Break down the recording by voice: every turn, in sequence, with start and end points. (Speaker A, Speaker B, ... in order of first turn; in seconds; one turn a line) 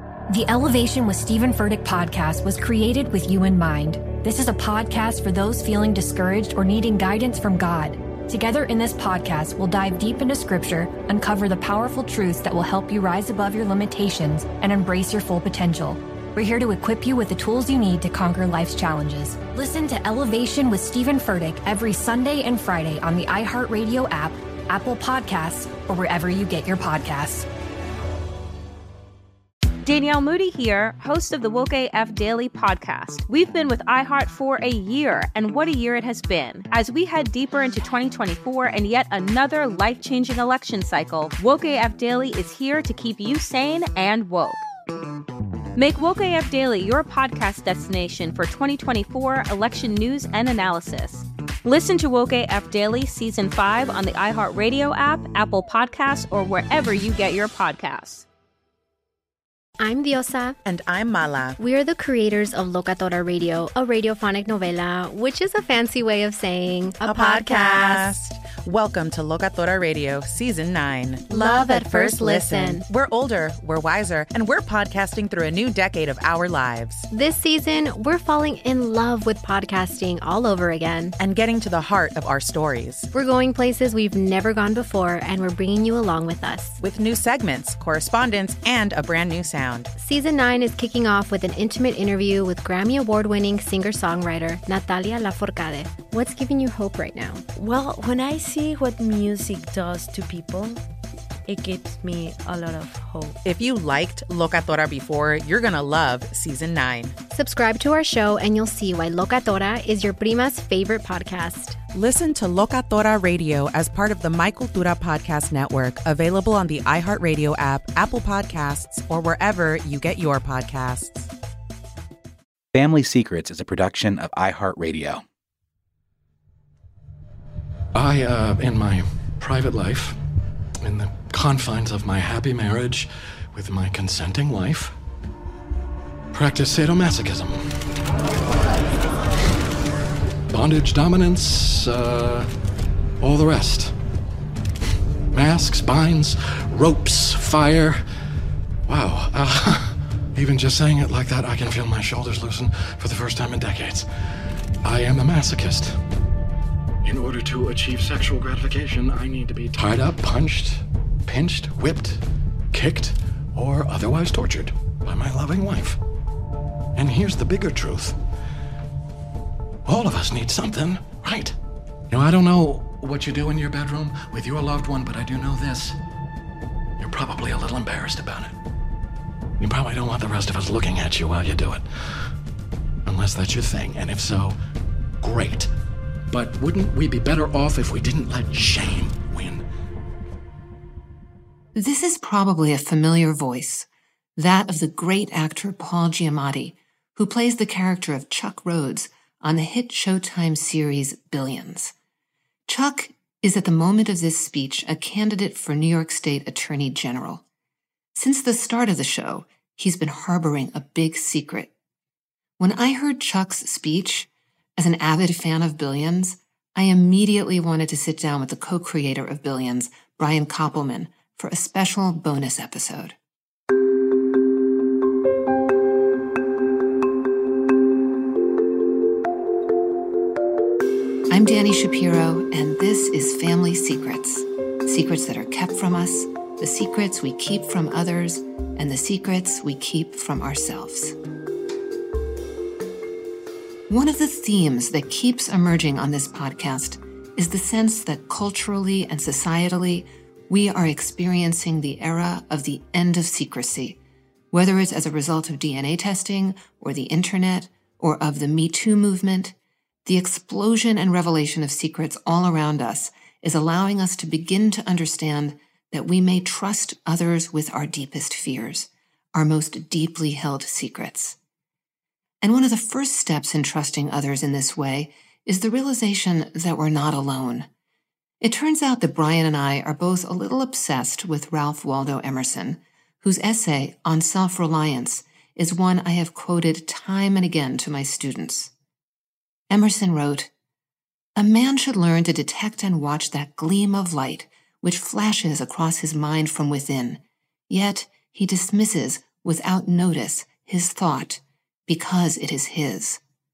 Speaker A: 0.3-27.5
Speaker B: 29.8-44.6
Speaker B: 45.7-58.2
Speaker C: 59.8-60.6
Speaker D: 60.6-61.6
Speaker C: 61.6-68.1
Speaker D: 67.0-77.0
Speaker C: 71.3-72.8
Speaker C: 77.1-81.2
Speaker D: 81.2-83.1
Speaker C: 83.1-86.8
Speaker D: 86.8-89.9
Speaker C: 90.0-97.4
Speaker E: 97.5-100.8
Speaker E: 101.5-103.4
Speaker D: 103.4-107.2
Speaker C: 107.3-111.8
Speaker D: 111.9-121.3
Speaker F: 122.7-125.2
Speaker G: 127.9-130.2
Speaker G: 130.8-134.9
Speaker G: 136.3-137.8
Speaker G: 140.5-142.5
Speaker G: 143.2-143.9
Speaker G: 145.3-148.0
Speaker G: 148.9-154.1
Speaker G: 154.8-156.0
Speaker G: 157.0-166.0
Speaker G: 166.9-168.2
Speaker G: 169.8-171.6
Speaker G: 172.1-176.0
Speaker G: 177.0-178.5
Speaker G: 179.6-182.3
Speaker G: 183.1-184.6
Speaker G: 185.2-185.7
Speaker G: 186.3-189.6
Speaker H: 191.7-201.9
Speaker H: 202.7-207.4
Speaker H: 208.1-211.7
Speaker H: 212.6-223.2
Speaker H: 231.3-241.2
Speaker H: 243.9-254.0
Speaker H: 254.5-271.4
Speaker H: 272.4-277.7
Speaker H: 278.4-288.7
Speaker H: 289.7-290.5
Speaker H: 291.4-303.2